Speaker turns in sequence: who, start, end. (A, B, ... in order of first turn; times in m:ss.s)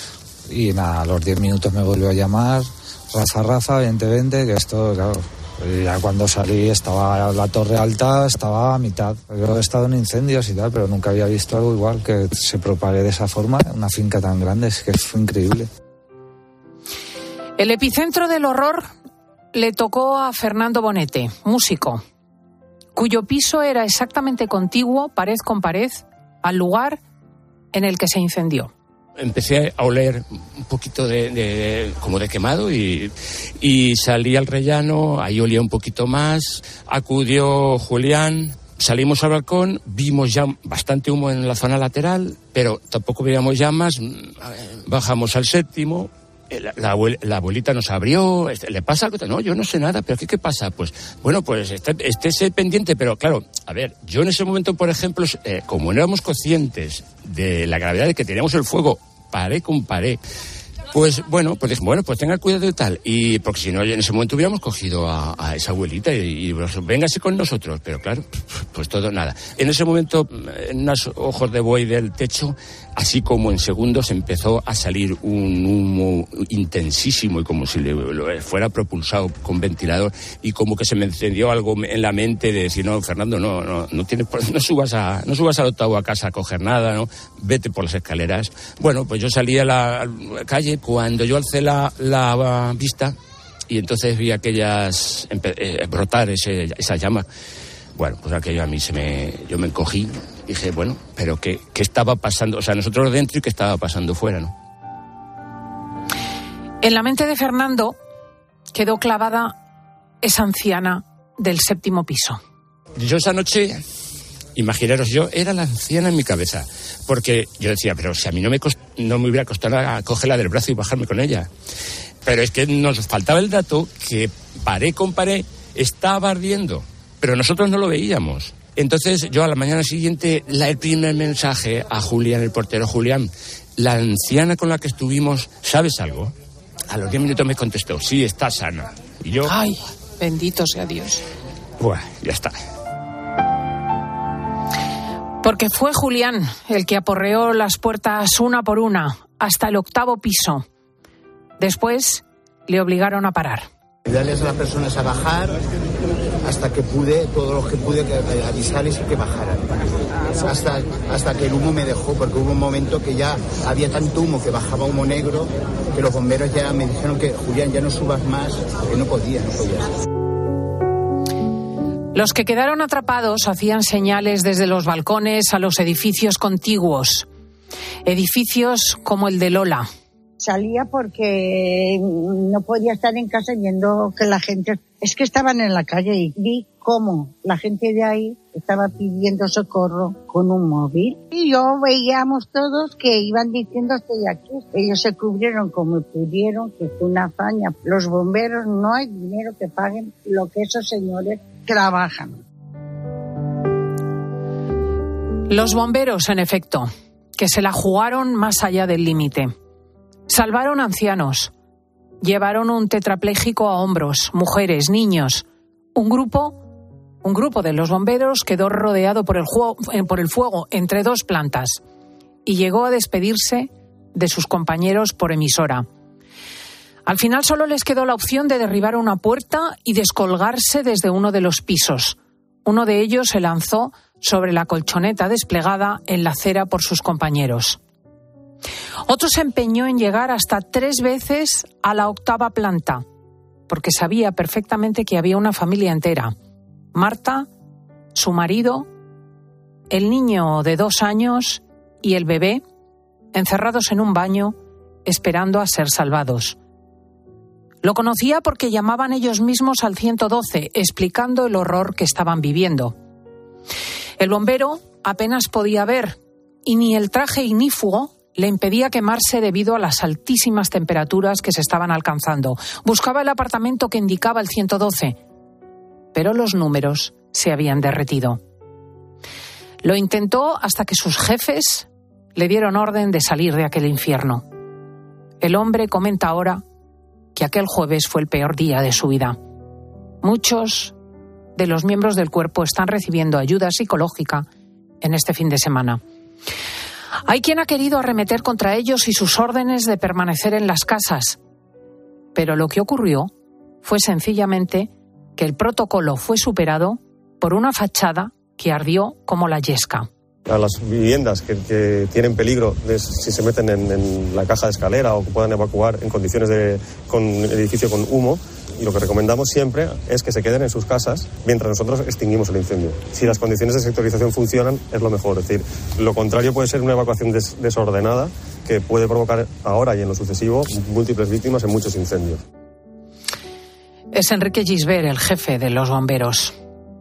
0:00.5-0:15.7 A
0:17.6-0:18.9 B
0:19.5-0:22.0 B
0:22.9-0:27.0 B
0:27.7-0:28.7 B
0:29.2-1:00.2 C
1:00.9-1:33.1 C
1:33.7-1:37.2 C
1:37.9-1:44.5 C
1:46.8-1:48.0 B
1:48.7-1:49.5 B
1:50.2-1:52.4 B
1:53.0-1:53.8 C
1:54.6-2:01.5 C
2:02.2-2:16.3 C
2:16.9-2:19.5 C
2:19.4-2:21.2 B
2:21.8-2:22.5 C
2:25.4-2:30.6 B
2:31.6-2:33.7 B
2:34.0-2:35.6 D
2:36.4-2:39.8 D
2:40.4-2:49.9 D
2:52.1-2:57.3 B
2:58.0-2:59.9 B
3:00.4-3:22.4 E
3:25.5-3:29.5 B
3:30.3-3:31.5 B
3:32.2-3:36.6 B
3:37.2-3:41.8 B
3:42.4-3:45.9 B
3:47.0-3:57.8 B
3:59.1-4:03.0 B
4:03.7-4:06.3 B
4:06.9-4:07.5 B
4:08.1-4:08.9 B
4:09.9-4:12.6 B
4:13.3-4:16.6 B
4:17.8-4:23.0 B
4:24.2-4:35.2 B
4:36.1-4:38.4 B
4:39.8-4:44.5 B
4:45.4-4:46.6 B
4:47.4-4:49.4 B
4:50.2-4:50.9 B
4:51.6-4:54.5 B
4:55.0-4:56.0 B
4:57.2-5:01.4 B
5:02.4-5:03.3 B
5:03.8-5:10.1 B
5:10.5-5:32.4 F
5:34.1-5:36.5 B